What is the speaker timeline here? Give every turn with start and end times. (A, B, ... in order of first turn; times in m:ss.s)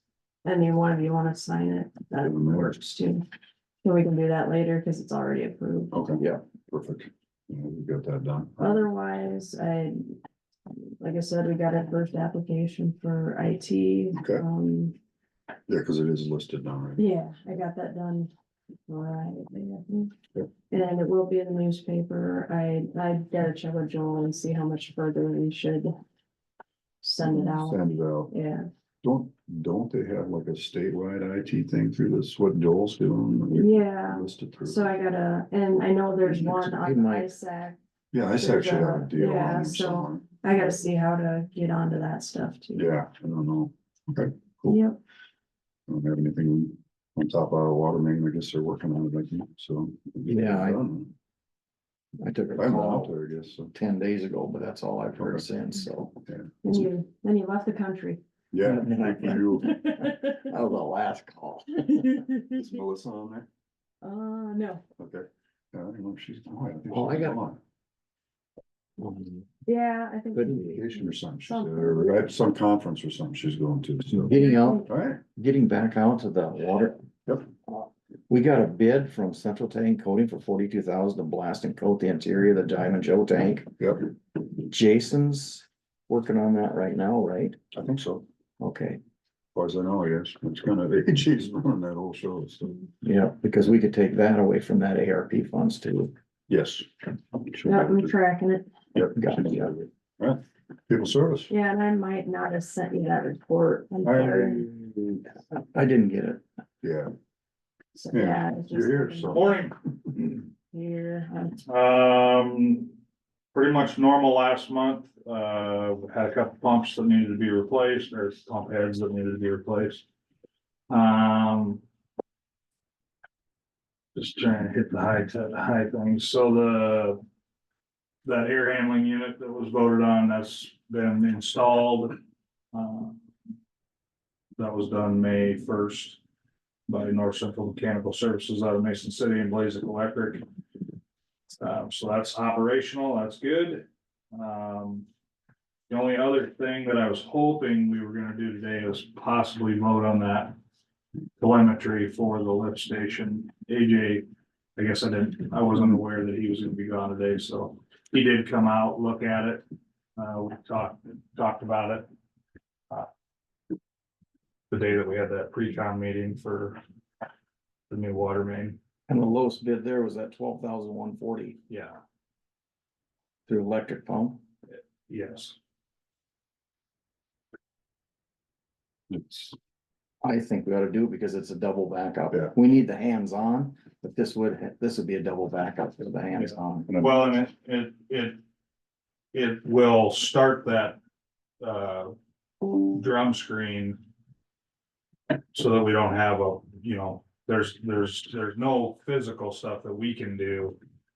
0:00.4-0:03.2 A
0:02.2-0:02.8 B
0:03.8-0:06.0 A
0:05.9-0:08.9 B
0:08.6-0:15.0 A
0:14.2-0:14.4 B
0:15.7-0:17.0 B
0:17.0-0:18.3 A
0:18.9-0:20.1 A
0:20.7-0:25.9 A
0:27.0-0:28.7 A
0:27.2-0:28.3 B
0:29.0-0:34.9 B
0:33.5-0:37.8 A
0:36.3-0:36.6 B
0:36.7-0:37.3 C
0:38.1-0:40.3 B
0:38.3-0:42.8 A
0:42.8-0:44.8 B
0:44.6-0:45.0 A
0:45.9-0:51.1 B
0:50.3-0:50.8 C
0:52.2-0:53.1 C
0:52.6-0:53.7 B
0:53.7-0:56.2 C
0:55.2-0:55.5 B
0:56.3-0:56.5 B
0:56.6-0:58.2 A
0:58.5-0:59.8 B
0:58.6-0:59.6 C
0:59.6-1:00.4 A
1:00.3-1:02.1 C
1:01.9-1:02.6 A
1:02.5-1:03.5 B
1:04.0-1:04.8 A
1:05.0-1:07.6 B
1:06.9-1:07.4 C
1:09.0-1:09.5 C
1:09.7-1:12.3 A
1:10.4-1:10.8 C
1:10.4-1:14.3 B
1:14.1-1:17.0 C
1:14.3-1:14.9 A
1:14.9-1:15.2 B
1:17.7-1:23.7 C
1:23.8-1:24.1 B
1:24.7-1:27.6 C
1:27.7-1:28.2 B
1:28.6-1:29.0 C
1:29.5-1:32.8 B
1:33.0-1:36.1 C
1:36.5-1:38.1 B
1:37.6-1:38.7 A
1:38.9-1:41.5 B
1:39.2-1:39.7 C
1:41.5-1:44.6 A
1:44.0-1:45.3 B
1:45.5-1:46.4 C
1:46.8-1:47.1 B
1:47.9-1:49.5 A
1:48.1-1:49.6 B
1:49.3-1:49.8 D
1:50.7-1:51.6 A
1:51.6-1:52.9 D
1:53.5-2:00.0 D
2:00.9-2:01.8 D
2:04.1-2:07.2 D
2:08.2-2:12.2 D
2:12.7-2:13.2 D
2:14.6-2:16.2 D
2:16.9-2:20.4 D
2:21.6-2:25.1 D
2:25.9-2:30.6 D
2:31.4-2:39.7 D
2:40.2-2:42.1 D
2:44.7-2:46.8 D
2:47.9-2:48.8 D
2:49.1-2:51.6 C
2:51.7-2:52.0 D
2:53.5-2:54.4 C
2:54.8-2:55.6 D
2:59.1-2:59.6 B
3:00.2-3:06.9 C
3:06.4-3:08.4 D
3:06.9-3:07.2 B
3:09.3-3:11.0 D
3:11.6-3:12.1 D
3:12.9-3:14.0 D
3:15.5-3:20.8 D